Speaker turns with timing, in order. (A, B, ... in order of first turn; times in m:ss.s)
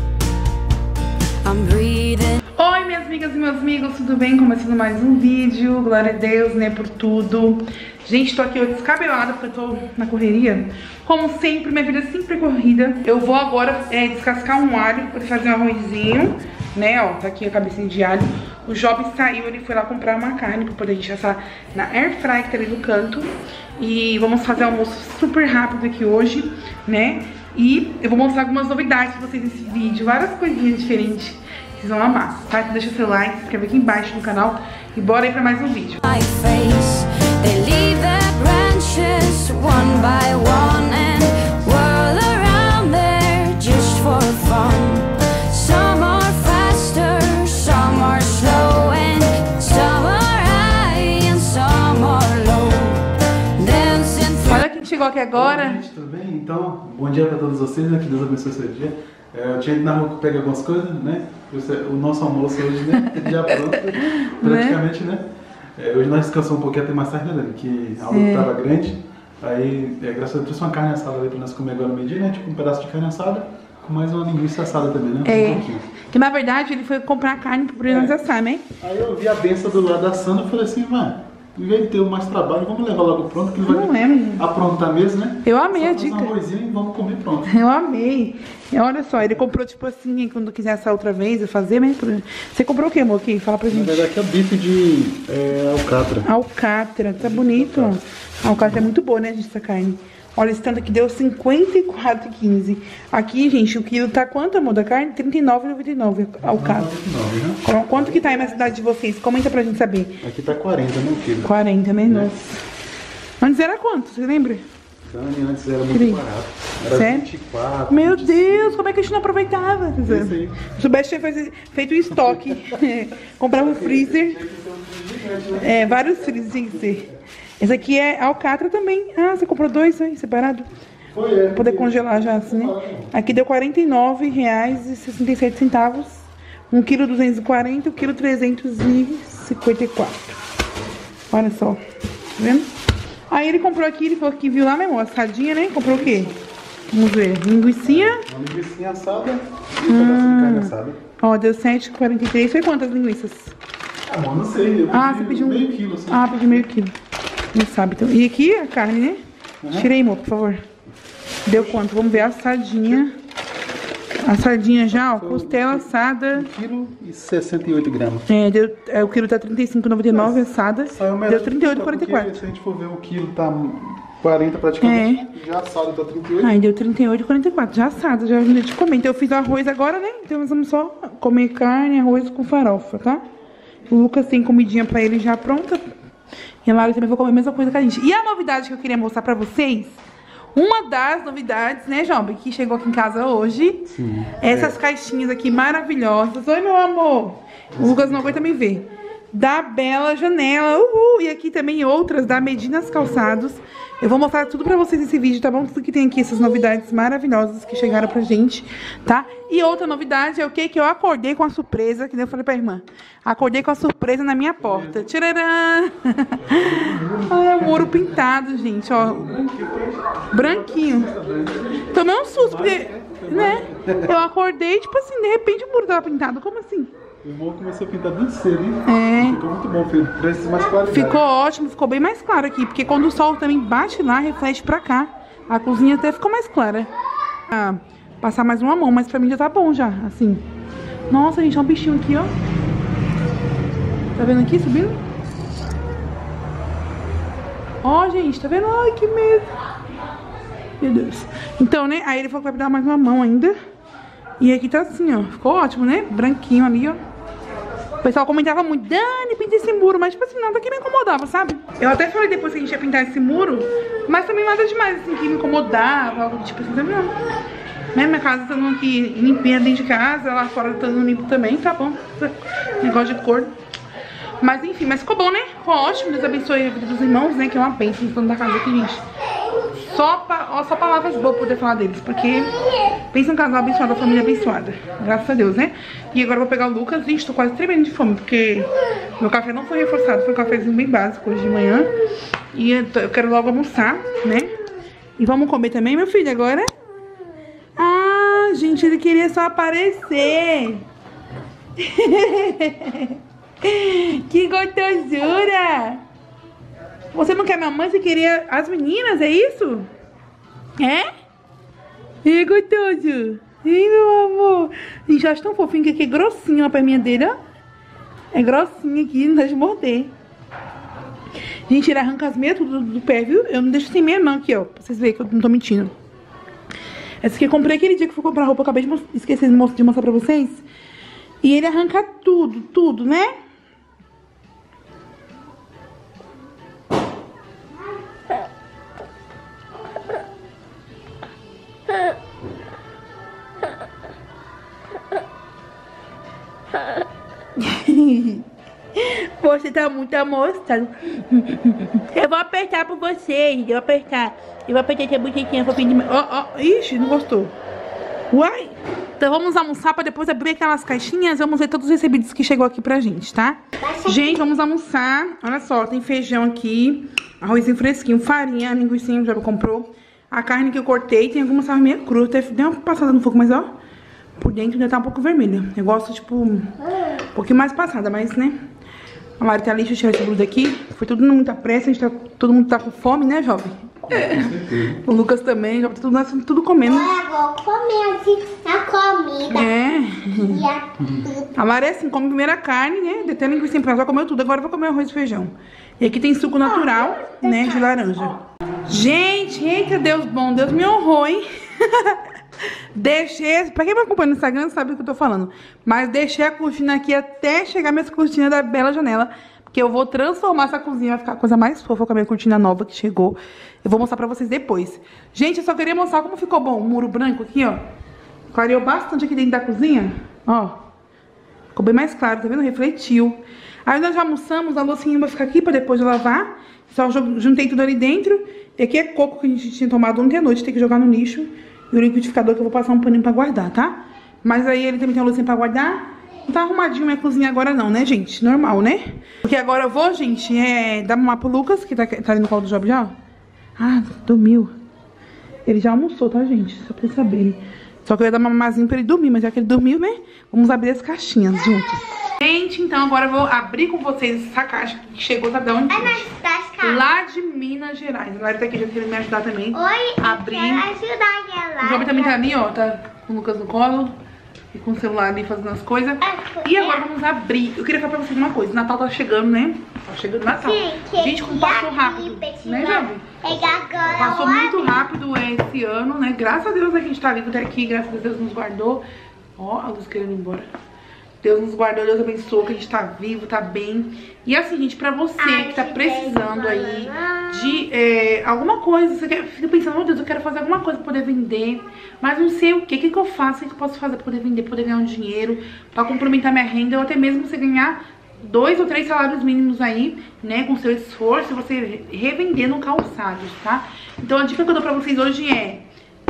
0:01.4-0:02.4 A
0:02.6-0:36.0 B
0:36.0-0:54.6 A
0:54.4-0:55.8 B
0:55.3-1:15.9 C
1:03.0-1:04.8 B
1:08.1-1:08.5 B
1:15.2-1:18.6 B
1:17.9-1:18.1 C
1:18.8-1:27.6 C
1:23.7-1:24.4 B
1:25.4-1:26.3 B
1:27.4-1:34.1 B
1:33.7-1:36.3 C
1:36.2-1:46.9 B
1:37.2-1:38.0 C
1:38.6-1:38.8 C
1:46.4-1:48.6 C
1:47.6-1:50.2 B
1:50.2-1:52.3 C
1:51.4-1:52.6 B
1:53.4-1:54.6 B
1:55.1-1:58.8 C
1:55.9-1:56.2 B
1:56.9-1:57.3 B
1:57.9-2:04.4 B
2:00.0-2:00.6 C
2:02.1-2:02.8 C
2:03.5-2:07.1 C
2:05.6-2:07.1 B
2:07.6-2:10.7 B
2:11.1-2:13.1 C
2:11.5-2:20.4 B
2:21.3-2:21.8 B
2:22.4-2:22.7 B
2:23.3-2:26.4 B
2:25.8-2:26.3 C
2:26.9-2:28.2 B
2:27.8-2:31.0 C
2:29.9-2:33.5 B
2:34.1-2:36.7 C
2:34.9-2:36.9 B
2:37.5-2:39.2 B
2:39.6-2:39.9 C
2:39.7-2:40.6 B
2:41.4-2:43.1 B
2:41.5-2:42.2 C
2:44.2-2:46.5 B
2:44.9-2:48.3 C
2:48.3-2:52.4 B
2:50.1-2:56.5 C
2:54.8-2:55.2 B
2:56.4-3:03.2 B
3:03.9-3:05.9 B
3:06.6-3:10.0 B
3:10.5-3:39.3 B
3:13.9-3:14.8 C
3:17.7-3:18.4 C
3:34.6-3:35.1 C
3:36.4-3:38.0 C
3:39.0-3:44.2 C
3:40.3-3:41.1 B
3:41.9-3:46.9 B
3:47.2-3:51.2 C
3:48.8-3:49.4 B
3:50.9-3:56.9 B
3:57.5-4:00.4 B
4:01.1-4:02.3 B
4:04.2-4:05.0 B
4:07.8-4:09.5 B
4:10.8-4:13.6 B
4:14.4-4:17.0 B
4:18.0-4:27.2 B
4:27.9-4:33.5 B
4:34.4-4:39.0 B
4:39.7-4:42.5 B
4:43.1-4:51.9 B
4:52.5-4:54.5 B
4:55.2-4:56.7 B
4:57.8-5:00.8 B
5:01.8-5:06.0 B
5:07.1-5:09.9 B
5:10.8-5:11.0 B
5:12.2-5:17.4 B
5:18.3-5:20.1 B
5:21.7-5:25.9 B
5:27.2-5:30.6 B
5:31.4-5:33.3 B
5:47.6-5:57.5 B
5:58.3-6:13.7 B
6:03.8-6:04.5 D
6:14.4-6:16.7 B
6:17.3-6:18.6 B
6:19.4-6:24.5 B
6:24.1-6:25.0 C
6:25.0-6:27.1 B
6:26.8-6:29.7 D
6:29.5-6:30.6 B
6:30.4-6:31.5 D
6:31.5-6:42.2 B
6:36.6-6:38.4 D
6:42.9-6:57.8 B
6:58.5-7:00.8 B
7:01.7-7:23.1 B
7:23.8-7:24.7 B
7:25.6-7:36.3 B
7:35.9-7:37.0 D
7:36.8-7:40.9 B
7:39.7-7:42.5 D
7:41.8-7:44.2 B
7:44.7-7:53.2 B
7:46.2-7:47.0 D
7:50.6-7:55.0 D
7:54.1-7:59.0 B
7:59.6-8:00.7 B
8:01.4-8:25.8 B
8:05.4-8:07.8 D